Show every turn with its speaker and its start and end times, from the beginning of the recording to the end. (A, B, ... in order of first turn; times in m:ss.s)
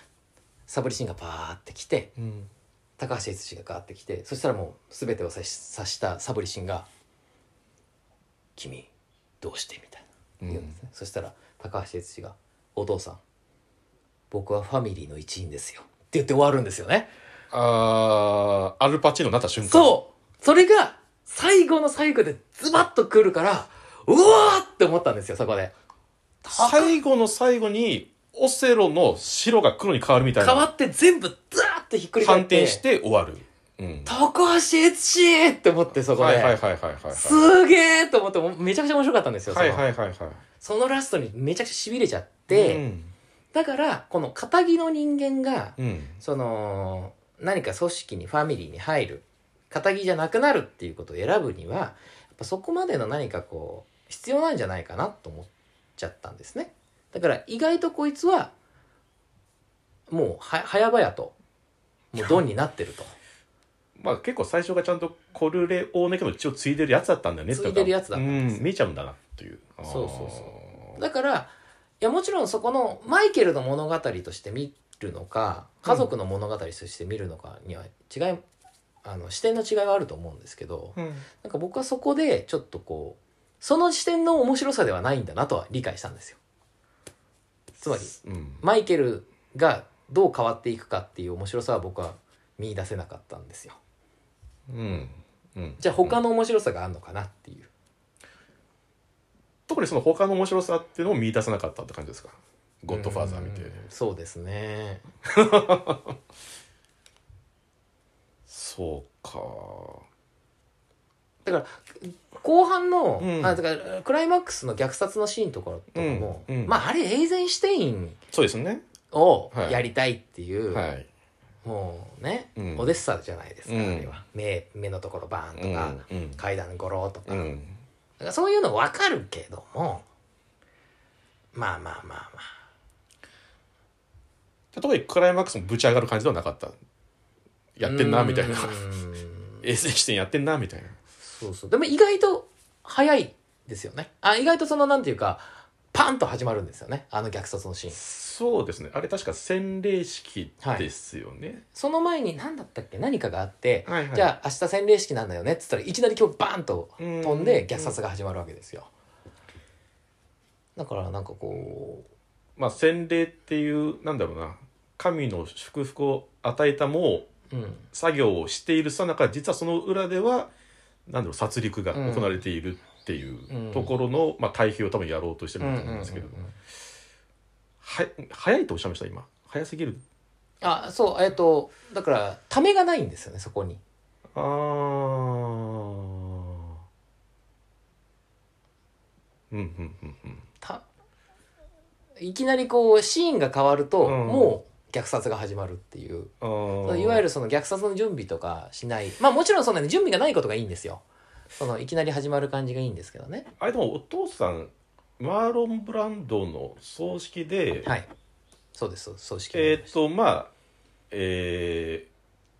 0:00.7-0:02.1 A
0:02.2-0:02.5 B
0:03.0-0:06.9 A
0:08.6-0:08.9 A
0:09.4-0:13.2 A
0:10.4-0:10.8 B
0:14.3-0:17.1 A
0:17.5-0:20.0 B
0:19.6-0:25.7 A
0:26.4-0:26.9 A
0:26.5-0:30.7 B
0:30.4-0:32.8 A
0:32.2-0:34.1 B
0:34.0-0:36.6 A
0:36.1-0:37.5 B
0:37.1-0:39.8 A
0:39.5-0:40.4 B
0:40.6-0:42.8 A
0:42.5-0:43.1 B
0:43.5-0:58.5 A
0:45.8-0:46.2 B
1:00.1-1:01.3 A
1:02.1-1:03.1 A
1:04.0-1:11.0 B
1:07.5-1:08.6 A
1:09.8-1:18.4 A
1:19.0-1:26.4 A
1:21.0-1:21.2 B
1:27.8-1:33.8 A
1:28.1-1:28.6 B
1:34.7-1:36.2 B
1:35.8-1:37.7 A
1:39.7-1:43.8 B
1:42.9-1:45.0 A
1:45.2-1:46.2 B
1:48.5-1:50.0 B
1:51.4-1:58.2 A
1:53.2-1:53.6 B
1:55.9-1:56.8 B
1:58.3-1:58.8 B
1:59.1-2:00.8 A
1:59.5-1:59.8 B
2:00.7-2:01.1 B
2:01.6-2:07.5 A
2:02.6-2:02.9 B
2:03.7-2:04.1 B
2:05.5-2:06.4 B
2:07.3-2:07.8 B
2:08.2-2:10.0 A
2:11.5-2:12.5 A
2:14.7-2:16.7 B
2:17.8-2:18.8 B
2:17.8-2:19.6 A
2:19.6-2:21.0 B
2:21.2-2:28.0 A
2:27.9-2:31.6 B
2:30.6-2:30.9 A
2:31.7-2:38.9 A
2:33.8-2:34.3 B
2:37.0-2:38.0 B
2:40.8-2:42.0 A
2:42.6-2:47.3 B
2:47.5-2:47.8 A
2:47.9-2:50.5 B
2:51.1-2:56.4 B
2:51.9-2:52.4 A
2:53.5-2:53.9 A
2:55.6-2:56.5 A
2:57.8-3:00.0 B
3:00.6-3:03.8 A
3:04.3-3:06.8 B
3:09.5-3:10.4 B
3:12.2-3:21.0 A
3:14.0-3:14.5 B
3:16.4-3:17.2 B
3:21.6-3:23.5 A
3:23.6-3:27.9 B
3:28.7-3:29.9 A
3:29.5-3:30.5 B
3:31.1-3:32.1 B